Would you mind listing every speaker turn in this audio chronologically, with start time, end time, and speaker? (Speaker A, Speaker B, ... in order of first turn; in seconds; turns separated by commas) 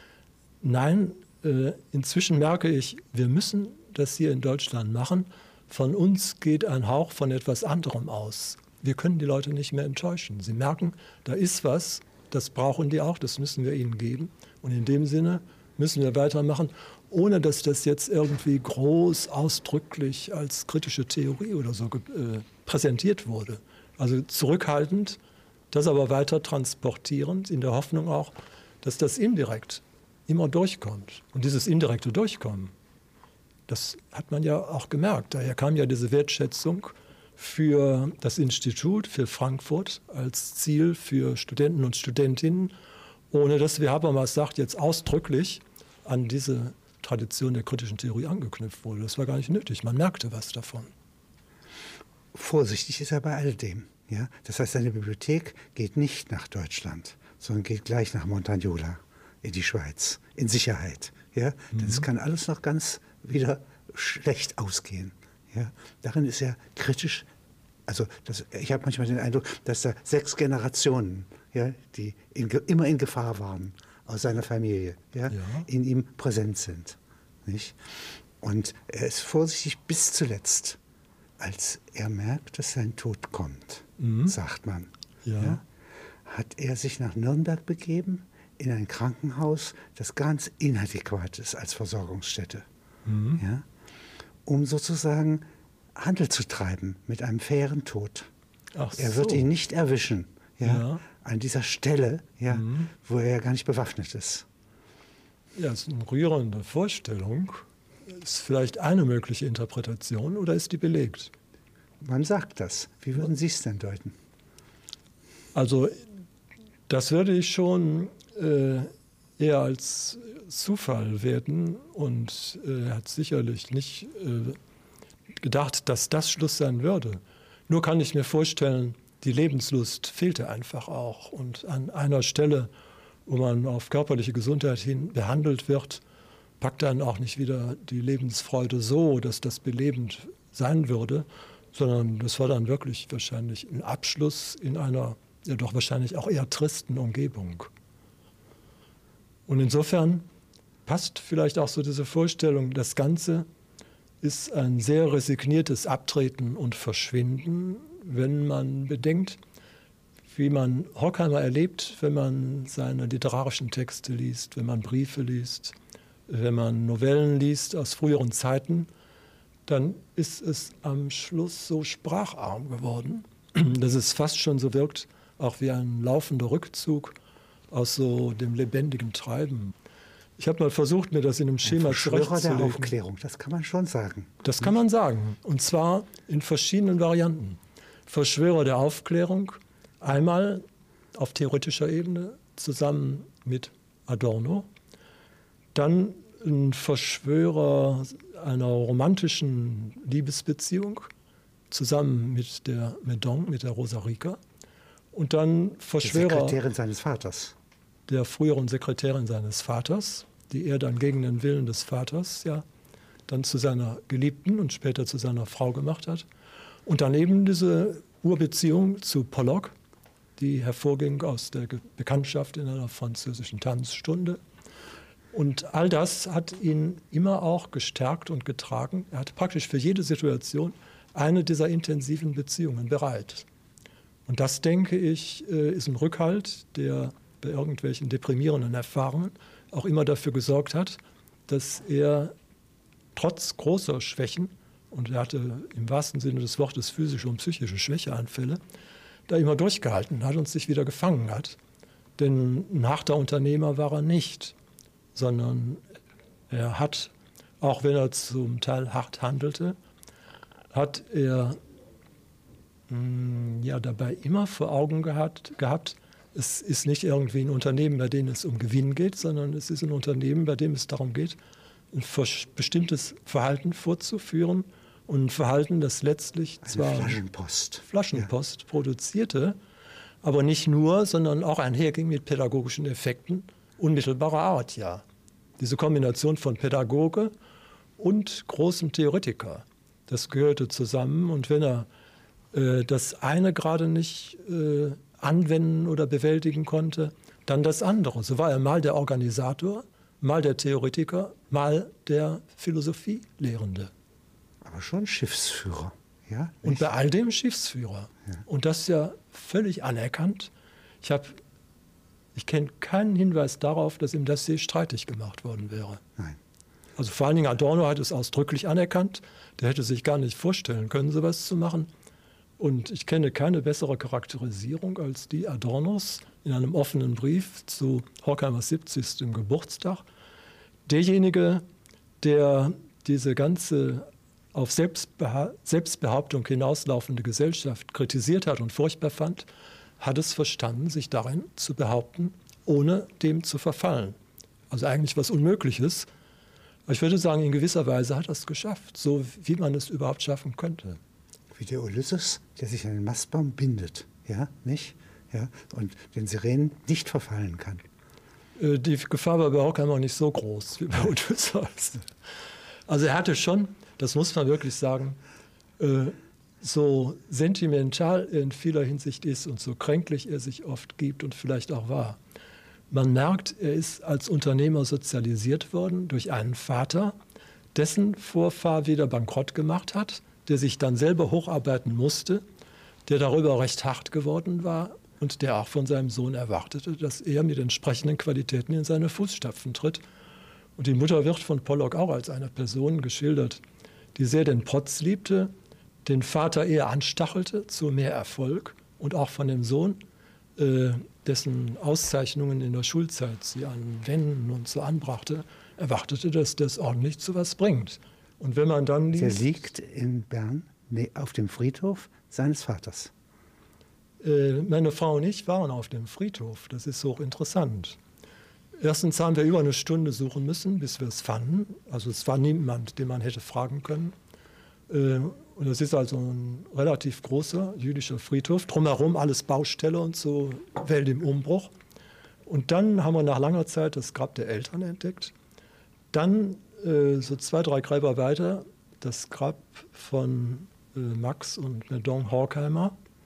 Speaker A: 0.6-25.2, Speaker A: 25.7-32.7, Speaker A: 33.7-42.7, Speaker A: 43.3-50.9, Speaker B: 52.3-67.3, Speaker A: 61.7-62.0, Speaker B: 67.9-80.8, Speaker A: 75.3-75.7, Speaker B: 81.4-85.6, Speaker A: 84.0-84.3, Speaker A: 85.2-85.6, Speaker B: 86.2-92.7, Speaker A: 93.0-93.4, Speaker B: 93.4-93.7, Speaker B: 94.4-95.4, Speaker B: 96.0-98.3, Speaker A: 98.7-99.5, Speaker B: 98.9-104.5, Speaker A: 100.6-101.0, Speaker A: 102.5-102.9, Speaker A: 105.5-111.3, Speaker B: 112.0-114.2, Speaker A: 115.5-115.9, Speaker A: 116.9-124.6, Speaker A: 125.4-132.7, Speaker A: 133.2-136.0, Speaker A: 136.6-147.7, Speaker A: 149.5-150.2, Speaker A: 150.8-153.5, Speaker A: 154.2-159.4, Speaker A: 160.3-165.7, Speaker A: 166.3-168.9, Speaker A: 169.7-177.2, Speaker A: 177.7-179.7, Speaker A: 180.4-182.9, Speaker B: 181.6-184.4, Speaker A: 184.4-194.7, Speaker A: 195.7-201.1, Speaker A: 201.7-204.4, Speaker A: 205.1-206.6, Speaker B: 206.0-207.6, Speaker A: 208.1-212.6, Speaker A: 213.3-216.3, Speaker A: 216.8-219.7, Speaker A: 220.4-224.4, Speaker A: 225.3-233.4, Speaker A: 234.2-242.3, Speaker A: 243.1-248.6, Speaker A: 249.3-251.6, Speaker A: 252.2-254.6, Speaker A: 255.1-255.8, Speaker A: 256.5-259.8, Speaker A: 260.7-261.6, Speaker A: 262.9-271.4, Speaker A: 271.9-277.2, Speaker B: 276.6-278.3, Speaker A: 277.8-279.6, Speaker A: 280.2-285.0, Speaker A: 285.6-287.3, Speaker A: 288.0-291.9, Speaker A: 292.5-303.9, Speaker B: 304.6-306.9, Speaker A: 306.6-311.4, Speaker A: 312.3-316.0, Speaker A: 317.0-321.9, Speaker A: 322.6-330.1, Speaker A: 330.9-331.6, Speaker A: 332.2-339.5, Speaker A: 340.0-344.1, Speaker A: 344.7-346.1, Speaker A: 346.9-351.0, Speaker B: 351.5-357.8, Speaker A: 358.6-362.0, Speaker A: 362.9-365.2, Speaker A: 365.8-372.2, Speaker A: 372.9-377.1, Speaker A: 377.7-382.4, Speaker A: 383.1-390.0, Speaker A: 390.8-393.6, Speaker A: 394.1-395.5, Speaker A: 396.0-400.0, Speaker A: 400.6-409.4, Speaker B: 409.1-413.1, Speaker A: 414.2-418.0, Speaker A: 418.8-424.1, Speaker A: 424.9-431.7, Speaker A: 432.4-435.3, Speaker A: 436.1-442.9